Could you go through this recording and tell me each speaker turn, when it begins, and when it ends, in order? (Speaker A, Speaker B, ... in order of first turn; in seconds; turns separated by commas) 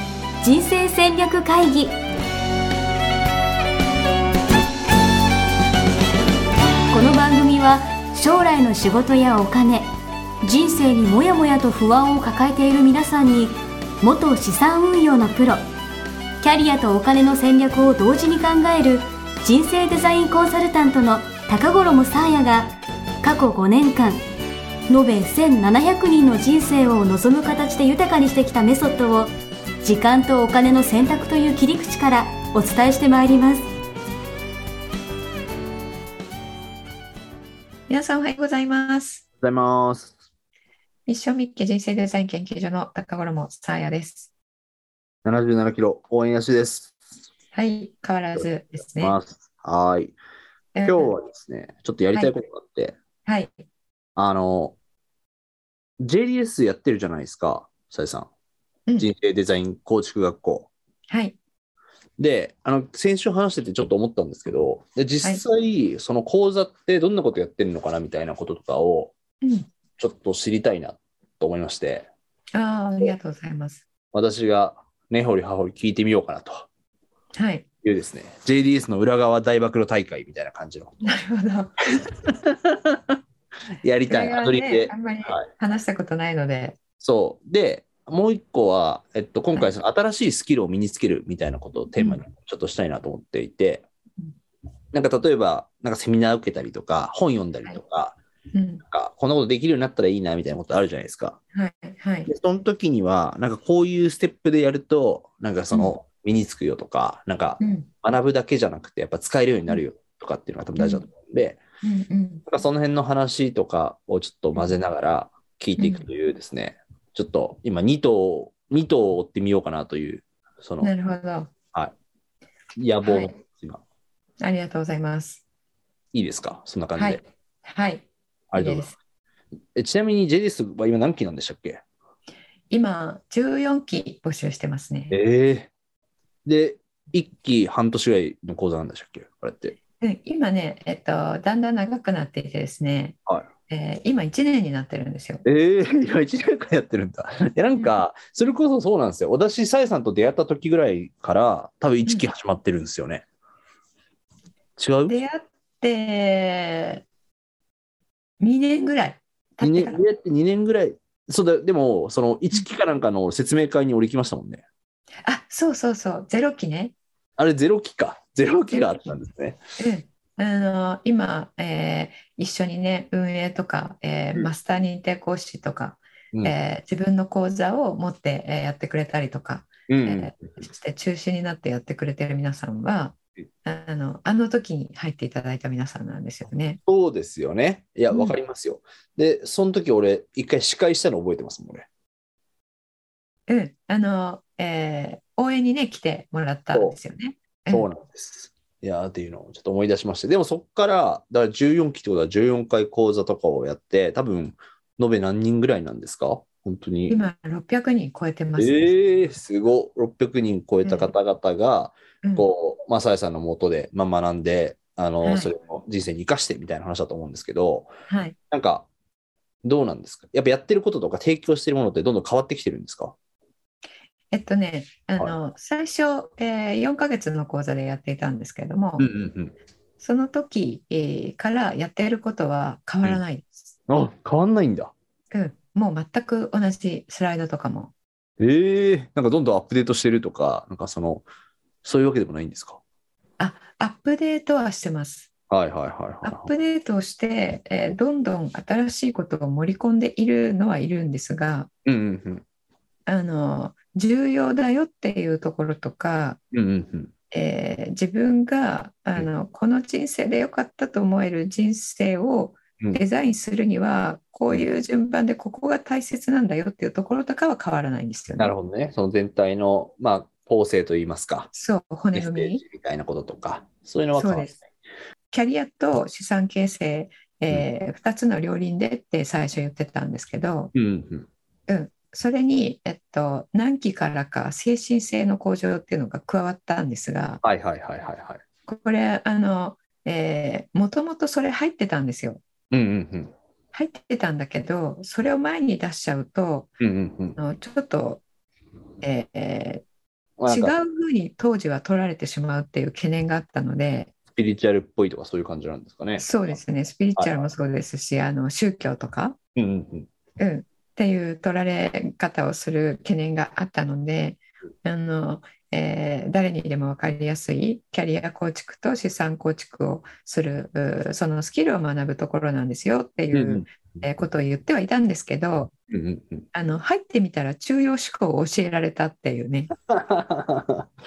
Speaker A: 0.4-2.0, Speaker A: 6.9-9.9, Speaker A: 10.4-15.6, Speaker A: 16.4-24.2, Speaker A: 24.9-29.3, Speaker A: 29.8-33.7, Speaker B: 37.9-39.2, Speaker C: 39.4-40.1, Speaker B: 41.1-44.3, Speaker C: 45.2-47.0, Speaker B: 47.5-49.2, Speaker C: 49.0-50.1, Speaker B: 50.7-51.1, Speaker C: 50.8-52.9, Speaker B: 53.2-53.5, Speaker C: 54.1-54.8, Speaker C: 56.0-58.3, Speaker C: 59.0-60.7, Speaker B: 61.1-61.4, Speaker C: 62.2-69.1, Speaker B: 69.4-69.7, Speaker C: 70.0-72.1, Speaker B: 72.5-73.8, Speaker C: 74.1-76.7, Speaker B: 77.3-77.6, Speaker C: 77.8-81.0, Speaker B: 81.0-81.8, Speaker C: 82.4-83.0, Speaker C: 83.8-85.5, Speaker B: 84.1-86.8, Speaker C: 87.0-93.8, Speaker B: 92.0-92.2, Speaker C: 94.9-98.2, Speaker B: 98.5-98.8, Speaker C: 98.9-101.4, Speaker B: 101.5-102.3, Speaker C: 102.3-111.6, Speaker B: 107.6-107.9, Speaker B: 110.8-111.1, Speaker B: 111.8-112.4, Speaker C: 112.5-120.9, Speaker B: 115.8-116.1, Speaker B: 120.8-121.5, Speaker C: 122.8-123.8, Speaker B: 123.0-123.3, Speaker B: 124.4-125.4, Speaker C: 126.1-127.2, Speaker B: 127.0-128.9, Speaker C: 128.5-128.9, Speaker C: 129.7-131.8, Speaker B: 132.7-135.2, Speaker C: 135.1-135.7, Speaker C: 136.4-139.8, Speaker B: 140.0-145.4, Speaker C: 145.4-153.2, Speaker C: 154.8-155.2, Speaker B: 155.1-157.0, Speaker B: 158.4-160.0, Speaker C: 159.6-164.6, Speaker B: 165.2-166.9, Speaker C: 167.4-169.6, Speaker B: 168.7-169.1, Speaker B: 169.8-186.8, Speaker C: 179.9-180.6, Speaker C: 186.8-191.9, Speaker B: 188.1-188.4, Speaker B: 193.5-197.9, Speaker C: 197.7-207.2, Speaker B: 207.1-208.9, Speaker C: 208.6-217.9, Speaker B: 210.8-211.1, Speaker B: 212.2-212.5, Speaker B: 215.2-215.5, Speaker B: 218.1-218.3, Speaker C: 218.5-218.9, Speaker C: 219.6-223.2, Speaker B: 224.3-229.1, Speaker C: 229.0-229.5, Speaker B: 230.0-233.7, Speaker C: 233.9-234.9, Speaker B: 235.3-237.9, Speaker C: 238.4-241.2, Speaker C: 241.8-242.8, Speaker B: 243.4-245.3, Speaker C: 245.5-246.5, Speaker B: 246.2-251.7, Speaker C: 251.8-252.4, Speaker B: 253.1-256.4, Speaker C: 256.5-257.1, Speaker B: 257.3-268.5, Speaker C: 268.4-271.5, Speaker B: 271.5-272.6, Speaker C: 272.1-274.6, Speaker B: 274.1-274.6, Speaker B: 275.3-280.7, Speaker C: 280.7-281.3, Speaker B: 281.7-287.4, Speaker C: 287.4-288.4, Speaker B: 288.6-292.4, Speaker C: 292.7-293.3, Speaker B: 293.7-296.7, Speaker C: 296.8-297.4, Speaker B: 297.4-298.2, Speaker B: 299.0-299.8, Speaker C: 300.4-300.7, Speaker B: 300.5-304.1, Speaker C: 304.3-306.6, Speaker B: 306.2-309.4, Speaker C: 307.2-307.5, Speaker C: 309.6-310.1, Speaker B: 310.4-325.7, Speaker C: 323.3-324.2, Speaker C: 325.9-326.5, Speaker B: 326.5-329.7, Speaker C: 329.9-330.9